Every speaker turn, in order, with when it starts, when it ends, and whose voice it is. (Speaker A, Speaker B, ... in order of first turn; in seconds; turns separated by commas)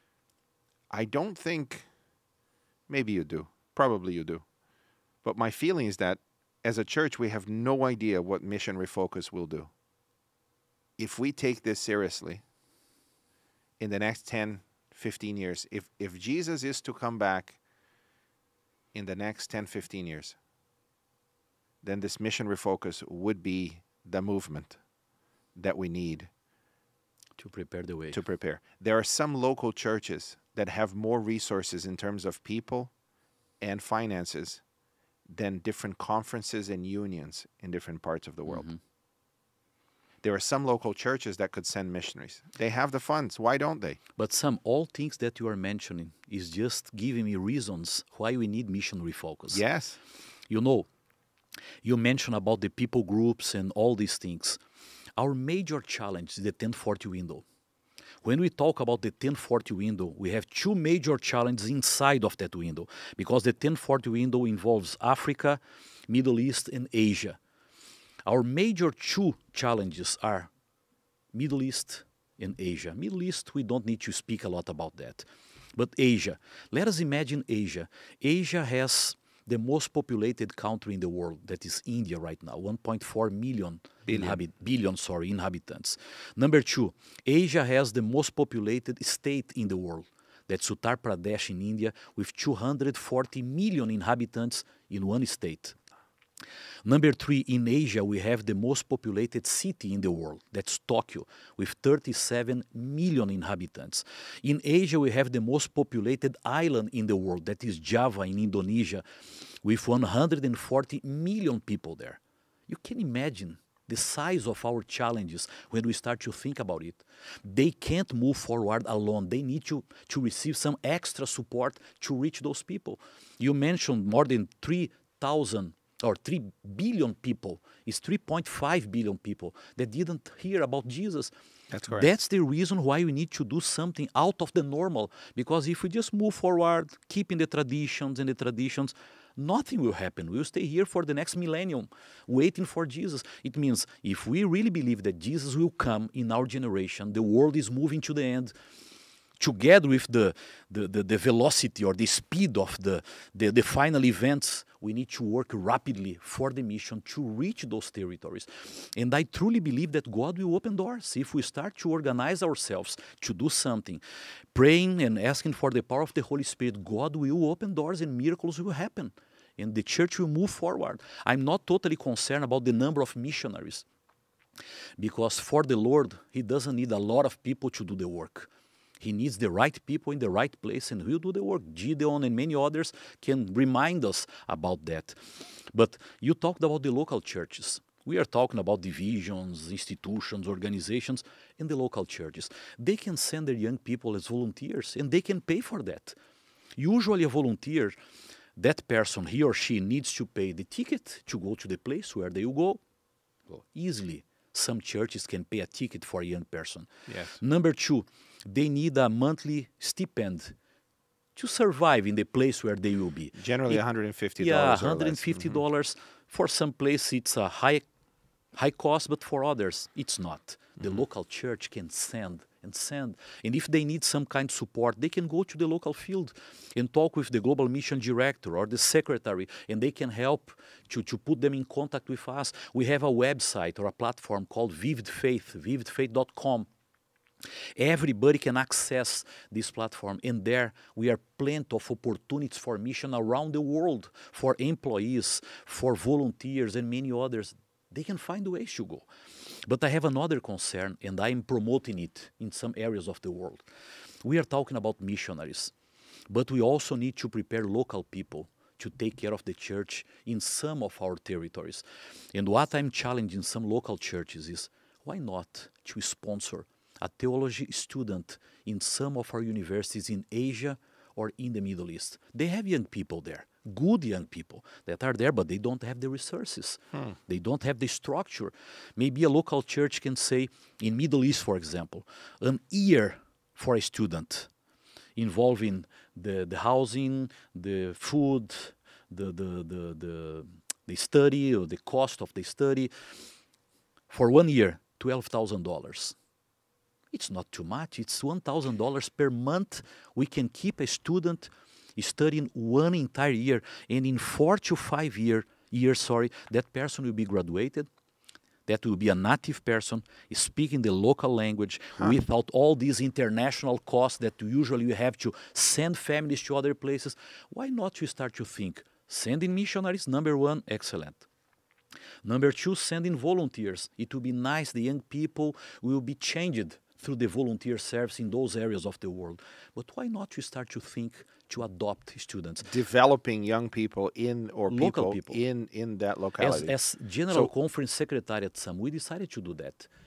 Speaker A: 0.9-1.9, Speaker A: 2.9-4.4, Speaker A: 5.2-9.7, Speaker A: 11.0-12.4, Speaker A: 13.8-17.6, Speaker A: 18.9-20.4, Speaker A: 21.8-24.8, Speaker A: 25.5-26.3, Speaker B: 27.4-28.2, Speaker A: 28.1-32.9, Speaker A: 33.6-34.6, Speaker A: 35.3-38.7, Speaker B: 38.5-38.8, Speaker A: 40.2-44.0, Speaker B: 44.2-49.6, Speaker A: 49.5-50.0, Speaker B: 50.5-50.9, Speaker B: 51.8-54.6, Speaker B: 55.2-57.4, Speaker B: 58.2-67.4, Speaker B: 68.2-70.5, Speaker B: 71.3-95.8, Speaker A: 84.0-84.4, Speaker B: 96.8-109.0, Speaker B: 109.6-131.3, Speaker A: 131.7-132.1, Speaker B: 131.9-148.5, Speaker B: 149.4-164.0, Speaker B: 164.5-173.8, Speaker B: 175.0-196.2, Speaker B: 196.8-198.0, Speaker B: 198.6-202.8, Speaker B: 203.5-210.6, Speaker A: 207.1-207.3, Speaker B: 211.3-213.8, Speaker A: 213.3-215.6, Speaker B: 214.4-217.8, Speaker B: 218.5-236.7, Speaker B: 237.8-249.1, Speaker B: 249.6-253.6, Speaker B: 254.2-255.7, Speaker B: 256.3-261.8, Speaker B: 262.3-284.5, Speaker B: 285.1-292.9, Speaker B: 294.1-296.1, Speaker B: 297.1-307.9, Speaker B: 308.7-321.2, Speaker B: 322.2-332.7, Speaker A: 332.6-336.7, Speaker B: 334.7-335.4, Speaker B: 336.4-339.9